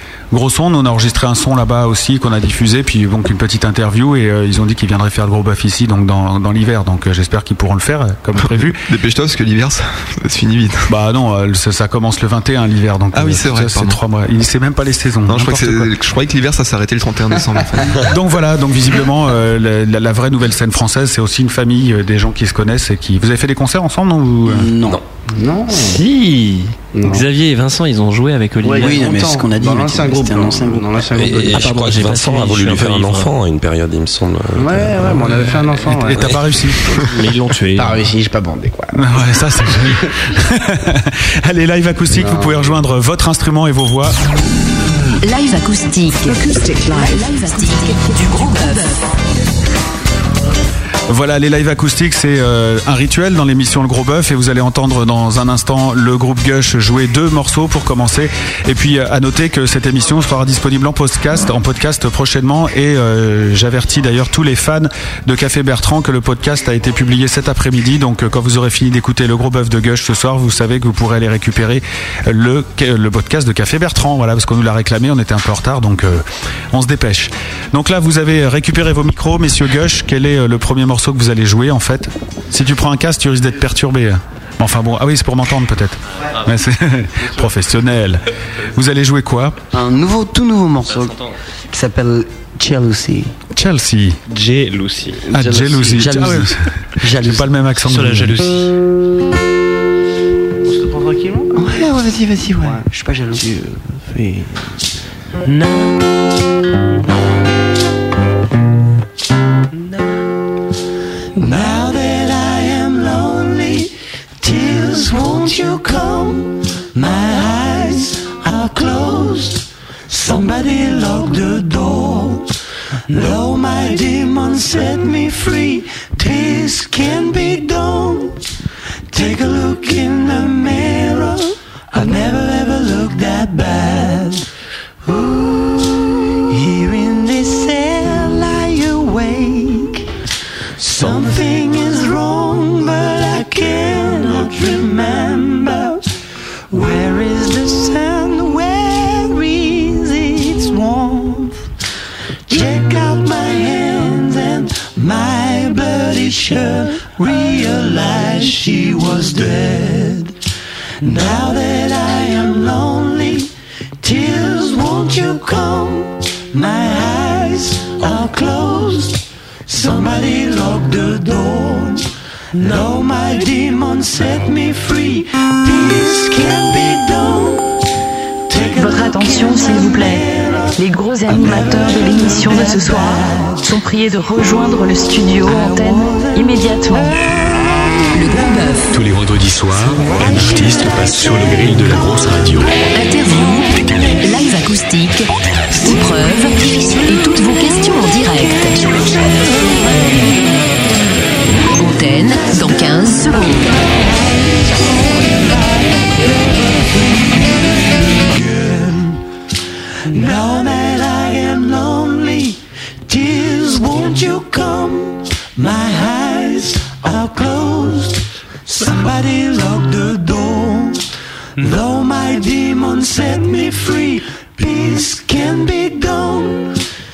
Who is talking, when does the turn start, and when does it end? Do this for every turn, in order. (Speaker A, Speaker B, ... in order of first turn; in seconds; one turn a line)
Speaker A: 0.3-8.8
Speaker B: 8.4-10.9
Speaker A: 10.9-15.9
Speaker B: 13.1-14.0
Speaker B: 15.3-18.0
Speaker A: 18.0-24.7
Speaker C: 24.4-25.0
Speaker D: 25.3-26.0
Speaker E: 25.7-29.0
Speaker D: 26.9-27.2
Speaker D: 28.6-32.0
Speaker C: 28.8-31.0
Speaker F: 31.1-35.5
Speaker E: 31.4-33.3
Speaker D: 34.5-36.3
Speaker A: 35.8-36.8
Speaker F: 36.1-36.4
Speaker E: 37.1-38.0
Speaker D: 37.8-39.0
Speaker A: 38.9-44.1
Speaker D: 42.1-42.7
Speaker G: 45.2-49.0
Speaker A: 51.1-89.6
Speaker C: 89.7-91.2
Speaker E: 90.9-91.3
Speaker C: 91.7-93.3
Speaker A: 93.5-94.2
Speaker E: 94.3-95.2
Speaker A: 95.3-98.4
Speaker D: 95.3-96.0
Speaker C: 95.9-97.5
Speaker E: 97.8-98.7
Speaker D: 100.6-101.9
Speaker C: 101.5-103.5
Speaker D: 102.5-104.7
Speaker E: 105.4-106.0
Speaker H: 111.4-122.5
Speaker H: 123.1-128.4
Speaker H: 129.1-134.4
Speaker H: 135.0-140.0
Speaker H: 140.8-146.0
Speaker H: 146.7-151.7
Speaker H: 152.5-160.3
Speaker H: 161.0-177.7
Speaker H: 178.5-183.6
Speaker I: 178.8-187.1
Speaker H: 185.5-186.4
Speaker H: 187.2-187.6
Speaker G: 188.1-188.9
Speaker J: 188.9-192.7
Speaker H: 189.8-192.6
Speaker G: 192.9-199.0
Speaker H: 193.2-194.1
Speaker H: 198.4-200.5
Speaker G: 201.7-203.7
Speaker H: 202.5-209.2
Speaker H: 210.1-221.0
Speaker H: 221.6-226.7